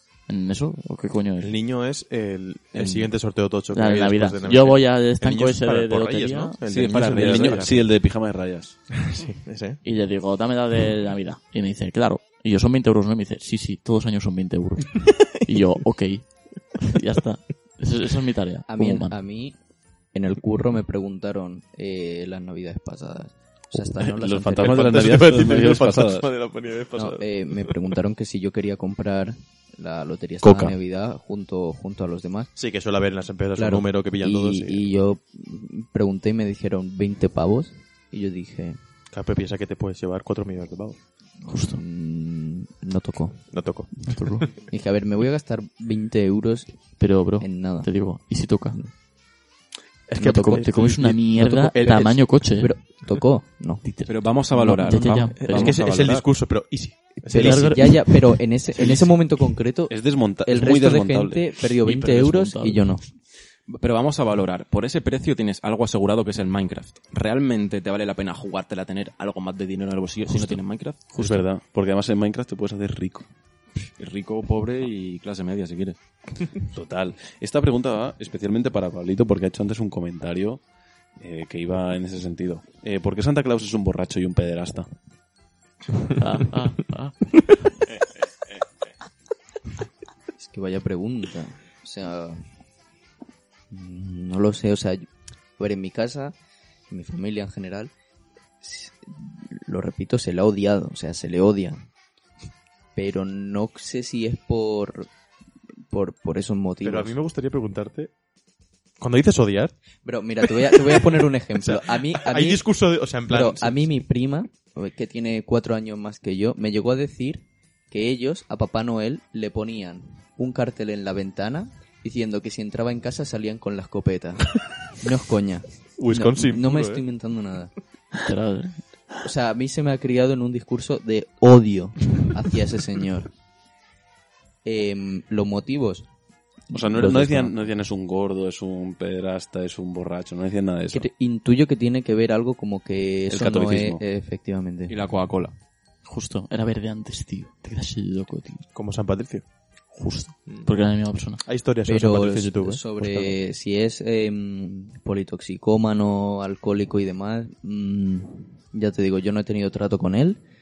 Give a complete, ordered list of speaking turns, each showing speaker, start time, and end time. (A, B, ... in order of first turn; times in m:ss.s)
0:00.2-0:01.5 A
0:01.4-0:07.9 B
0:02.7-0:03.1 C
0:03.7-0:06.6 A
0:06.7-0:07.8 C
0:06.8-0:08.8 D
0:09.1-0:09.8 B
0:09.8-0:19.1 A
0:18.7-0:19.6 E
0:20.1-0:25.1 E
0:24.0-0:26.3 D
0:24.6-0:27.3 B
0:26.9-0:32.5 E
0:30.4-0:30.7 D
0:32.6-0:34.8 B
0:33.6-0:38.8 E
0:39.1-0:41.0 B
0:41.4-0:41.8 A
0:41.6-0:43.5 E
0:43.5-0:44.6 B
0:44.0-0:44.5 A
0:44.7-0:47.9 E
0:47.0-0:48.8 A
0:50.1-0:52.4 B
0:50.2-0:52.7 A
0:51.8-0:53.8 E
0:53.8-0:55.8 A
0:54.0-0:56.3 C
0:55.0-0:58.2 B
0:57.3-1:03.0 E
0:57.3-0:58.0 A
0:58.8-0:59.1 C
0:59.9-1:01.5 D
1:01.8-1:02.9 A
1:03.7-1:11.1 C
1:10.3-1:11.4 A
1:11.2-1:13.3 D
1:14.0-1:16.0 C
1:16.7-1:20.6 D
1:21.2-1:24.9 D
1:26.2-1:27.2 A
1:30.4-1:32.4 E
1:33.7-1:36.4 E
1:36.9-1:37.9 E
1:38.6-1:41.8 E
1:42.9-1:45.1 E
1:45.9-1:47.2 E
1:46.8-1:48.1 B
1:49.0-1:49.7 B
1:50.0-1:52.7 E
1:50.7-1:51.0 B
1:51.6-1:53.8 B
1:53.2-2:07.7 E
2:06.0-2:07.0 B
2:08.2-2:08.8 A
2:09.2-2:13.3 E
2:14.6-2:16.1 E
2:16.7-2:17.6 E
2:16.7-2:21.1 D
2:20.9-2:25.0 E
2:23.3-2:24.0 D
2:24.9-2:25.5 C
2:26.0-2:28.7 A
2:28.7-2:29.4 B
2:29.9-2:31.4 A
2:31.4-2:33.3 B
2:31.8-2:40.4 E